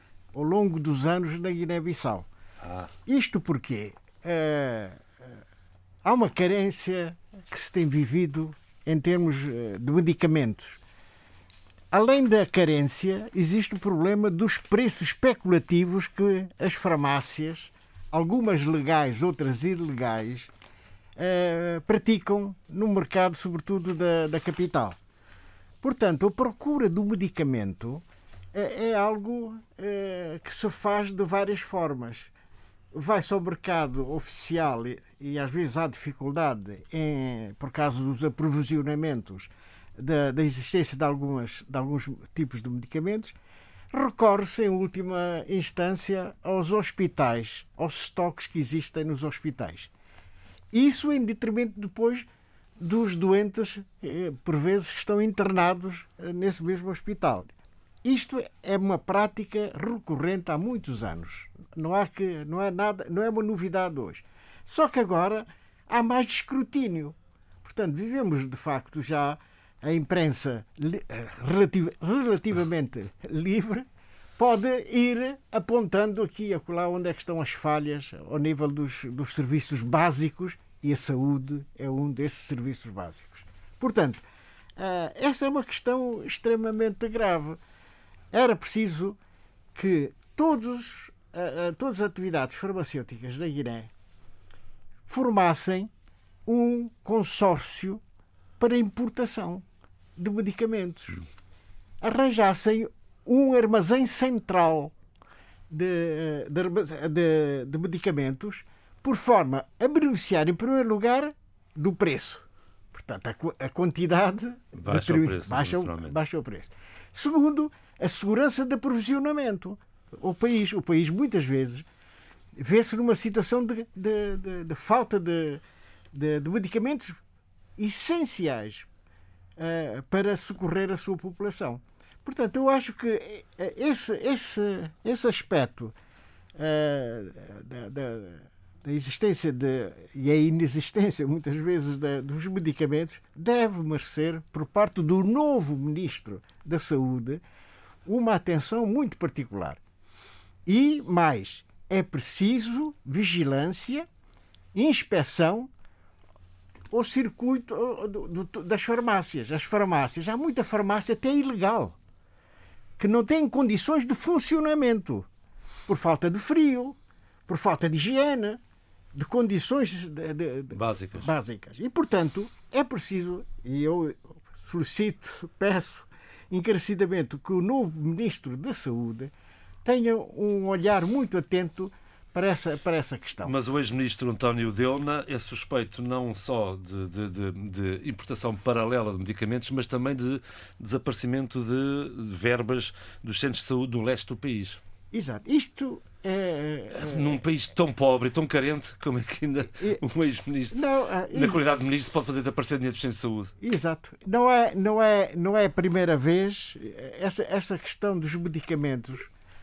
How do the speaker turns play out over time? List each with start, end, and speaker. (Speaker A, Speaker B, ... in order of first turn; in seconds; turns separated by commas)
Speaker A: 0.3-2.3, Speaker B: 2.6-2.9, Speaker A: 3.1-5.2, Speaker A: 6.0-10.8, Speaker A: 11.9-20.5, Speaker A: 21.2-25.0, Speaker A: 25.8-32.3, Speaker A: 32.9-43.4, Speaker A: 43.9-49.9, Speaker A: 50.7-52.3, Speaker A: 52.8-57.5, Speaker A: 58.0-73.9, Speaker A: 74.4-84.2, Speaker A: 84.8-87.6, Speaker A: 88.3-89.2, Speaker A: 89.8-93.9, Speaker A: 95.1-95.9, Speaker A: 96.5-98.0, Speaker A: 98.6-99.7, Speaker A: 100.2-101.2, Speaker A: 102.0-104.9, Speaker A: 105.7-121.8, Speaker B: 114.8-116.2, Speaker A: 122.6-125.6, Speaker A: 126.1-127.2, Speaker A: 127.8-128.9, Speaker A: 129.6-135.9, Speaker A: 136.6-147.4, Speaker A: 148.1-149.8, Speaker A: 150.7-154.1, Speaker A: 154.7-155.7, Speaker A: 156.9-161.9, Speaker A: 163.0-165.3, Speaker A: 165.9-168.6, Speaker A: 169.1-179.3, Speaker B: 170.7-171.3, Speaker A: 179.8-183.5, Speaker B: 183.4-194.8, Speaker A: 195.1-197.4, Speaker B: 196.9-203.5, Speaker A: 199.8-200.0, Speaker A: 200.7-201.6, Speaker A: 203.6-209.3